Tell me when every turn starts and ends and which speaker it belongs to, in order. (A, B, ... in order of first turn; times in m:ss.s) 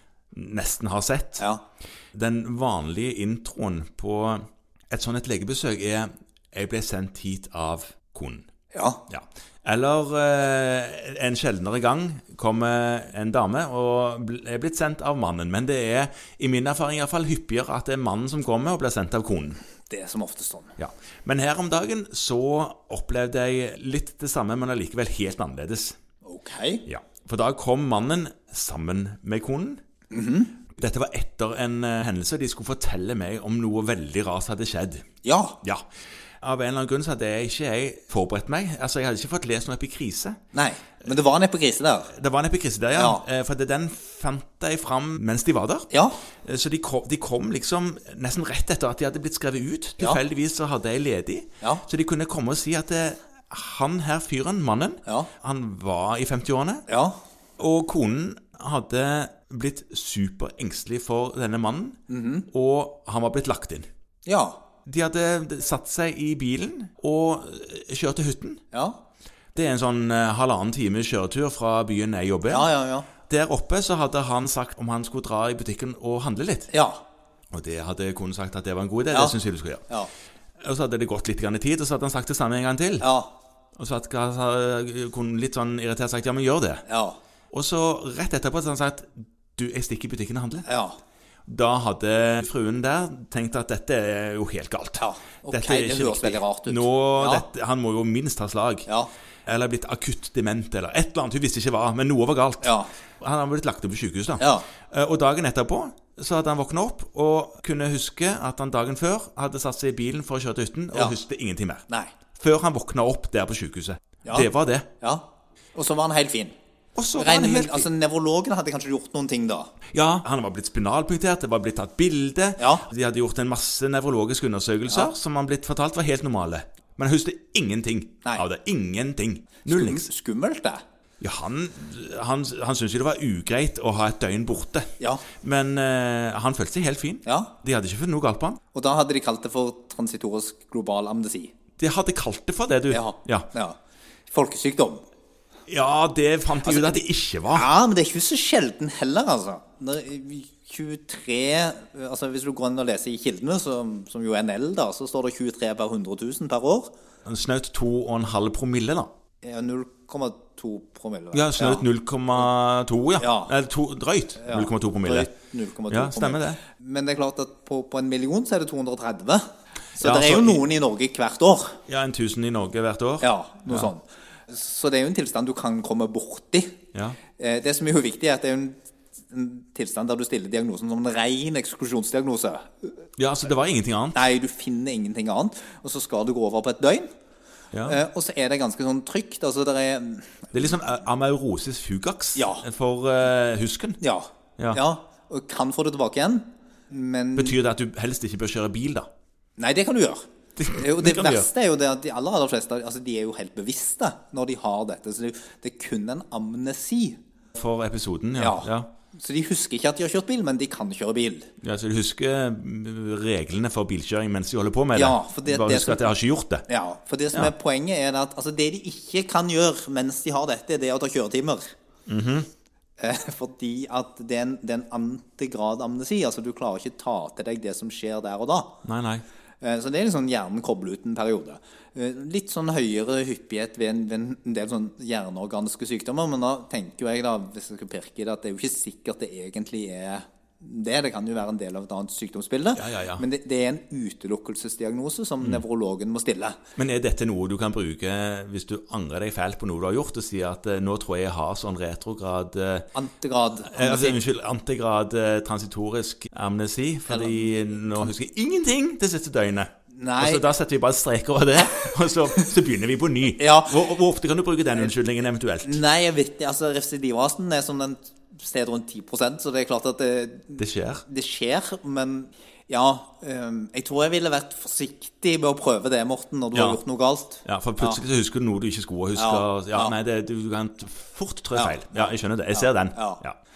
0:00.3-0:01.4 A
0:02.1-0:08.5 A
0:08.7-0:09.0 B
0:09.1-0:19.6 A
0:19.9-0:20.8 B
0:20.8-0:26.0 A
0:26.2-0:26.8 B
0:26.9-0:29.8 A
0:30.1-0:30.5 B
0:30.8-0:35.0 A
0:35.2-0:35.6 B
0:36.4-0:40.4 A
0:40.5-0:42.1 B
0:42.1-0:45.9 A
0:43.0-0:43.2 B
0:45.9-0:46.2 B
0:46.4-0:56.8 A
0:56.9-0:57.2 B
0:57.6-1:02.0 A
1:02.1-1:02.5 B
1:02.5-1:03.9 A
1:04.3-1:04.6 B
1:04.9-1:08.6 A
1:08.7-1:09.0 B
1:09.6-1:12.7 A
1:12.5-1:13.1 B
1:13.3-1:16.7 A
1:16.7-1:17.0 B
1:17.5-1:19.9 A
1:19.1-1:19.4 B
1:20.6-1:23.1 A
1:23.0-1:23.3 B
1:23.8-1:26.8 A
1:26.9-1:27.2 B
1:27.5-1:30.7 A
1:30.7-1:31.0 B
1:31.5-1:38.9 A
1:35.0-1:37.4 B
1:39.5-1:54.9 A
1:42.6-1:42.9 B
1:44.4-1:44.7 B
1:54.2-1:54.5 B
1:55.8-1:56.5 B
1:57.0-1:57.9 A
1:57.2-1:59.7 B
1:59.9-2:10.1 A
2:02.6-2:02.8 B
2:09.7-2:10.8 B
2:11.2-2:18.6 A
2:15.0-2:15.2 B
2:17.2-2:17.5 B
2:18.7-2:21.5 B
2:21.8-2:23.5 A
2:22.9-2:23.8 B
2:24.3-2:25.0 B
2:25.7-2:27.7 A
2:26.6-2:36.9 B
2:37.2-2:39.1 A
2:39.4-2:41.9 B
2:41.3-2:45.3 A
2:43.2-2:43.5 B
2:44.4-2:49.5 B
2:45.9-2:46.6 A
2:50.0-2:50.6 A
2:50.0-2:51.8 B
2:51.9-2:53.9 A
2:53.2-2:56.8 B
2:56.9-2:57.2 A
2:57.4-2:58.8 B
2:59.3-3:02.9 B
3:03.2-3:04.2 A
3:04.1-3:07.1 B
3:07.7-3:08.0 A
3:07.8-3:10.5 B
3:10.5-3:14.0 A
3:12.4-3:12.6 B
3:14.0-3:17.6 B
3:17.4-3:19.1 A
3:19.6-3:27.2 B
3:20.6-3:21.5 A
3:27.6-3:28.9 A
3:28.4-3:31.5 B
3:31.6-3:36.7 A
3:35.0-3:36.1 B
3:36.7-3:41.7 B
3:42.1-3:42.5 A
3:43.0-3:48.7 B
3:48.8-3:49.2 A
3:49.6-4:06.6 B
4:02.8-4:03.2 A
4:06.8-4:12.9 A
4:13.0-4:14.2 B
4:13.7-4:25.8 A
4:17.1-4:18.1 B
4:19.9-4:20.4 B
4:23.4-4:24.0 B
4:25.6-4:38.0 B
4:30.6-4:31.0 A
4:36.5-4:36.8 A
4:37.4-4:43.4 A
4:39.2-4:39.9 B
4:41.6-4:43.2 B